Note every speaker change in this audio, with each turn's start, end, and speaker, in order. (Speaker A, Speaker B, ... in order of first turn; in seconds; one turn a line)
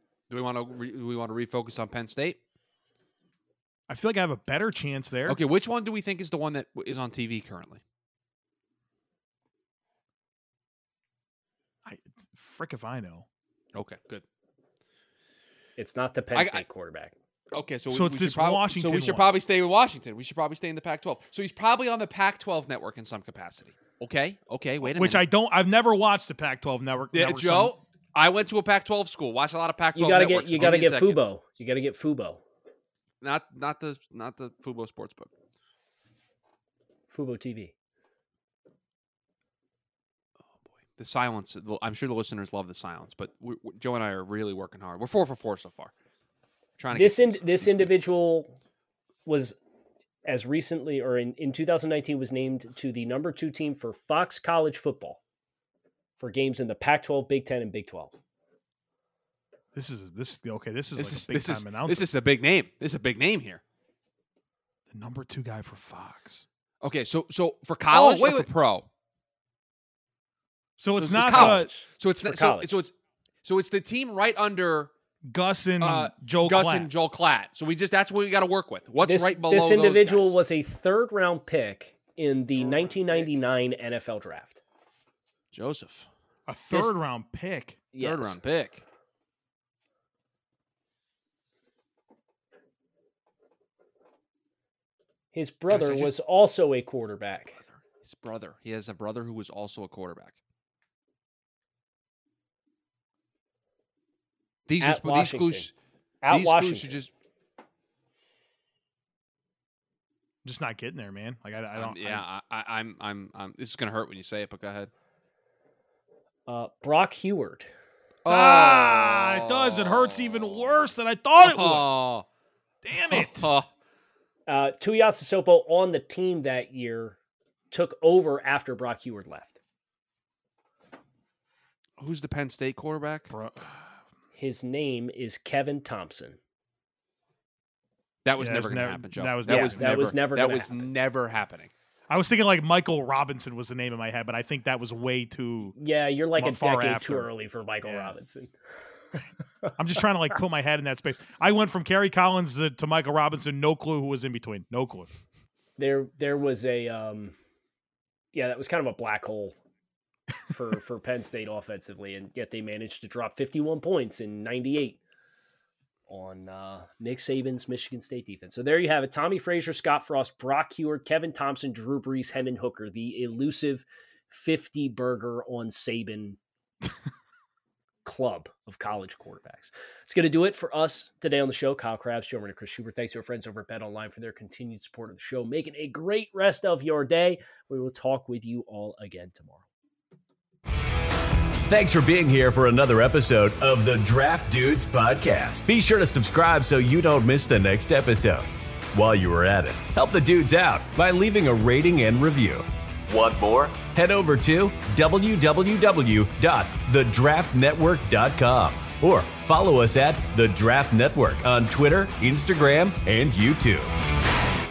Speaker A: 0.3-2.4
Speaker B: 3.9-5.4
Speaker A: 5.3-7.8
Speaker B: 11.8-13.3
Speaker A: 13.7-14.2
Speaker C: 15.8-17.1
Speaker A: 16.4-16.6
Speaker A: 17.5-25.2
Speaker B: 17.9-19.4
Speaker B: 24.8-27.8
Speaker A: 27.1-31.2
Speaker C: 29.9-32.4
Speaker A: 33.2-35.3
Speaker C: 37.1-37.7
Speaker A: 41.0-45.9
Speaker A: 46.8-47.9
Speaker C: 46.9-48.6
Speaker C: 49.3-49.6
Speaker C: 50.3-55.2
Speaker C: 56.2-58.2
Speaker B: 59.7-62.1
Speaker A: 61.0-63.6
Speaker B: 64.9-66.5
Speaker A: 66.8-68.9
Speaker B: 67.9-68.5
Speaker B: 70.8-71.7
Speaker A: 71.0-72.9
Speaker C: 71.3-72.8
Speaker A: 73.4-74.9
Speaker B: 75.3-76.9
Speaker A: 75.8-80.3
Speaker C: 79.0-84.6
Speaker A: 82.7-83.3
Speaker A: 85.5-86.1
Speaker B: 86.5-87.8
Speaker C: 87.9-88.4
Speaker A: 88.0-88.8
Speaker C: 95.3-97.6
Speaker A: 95.7-96.1
Speaker A: 97.6-100.4
Speaker A: 104.7-105.7
Speaker C: 104.8-105.7
Speaker C: 106.2-107.0
Speaker A: 106.3-107.1
Speaker B: 110.4-112.2
Speaker A: 111.8-114.9
Speaker C: 116.5-117.7
Speaker A: 118.2-120.8
Speaker B: 118.3-121.9
Speaker A: 121.4-122.3
Speaker B: 122.8-123.5
Speaker A: 123.1-123.7
Speaker C: 124.5-127.2
Speaker C: 127.7-129.6
Speaker A: 132.0-133.3
Speaker B: 133.3-133.7
Speaker C: 134.3-136.4
Speaker A: 138.2-141.7
Speaker B: 138.4-140.2
Speaker C: 139.5-140.9
Speaker B: 142.1-145.7
Speaker C: 145.8-148.5
Speaker B: 146.4-147.3
Speaker B: 147.8-148.1
Speaker B: 149.8-155.1
Speaker C: 155.8-157.3
Speaker C: 158.3-159.6
Speaker C: 160.5-165.0
Speaker C: 166.1-176.4
Speaker C: 178.1-189.6
Speaker D: 191.7-213.9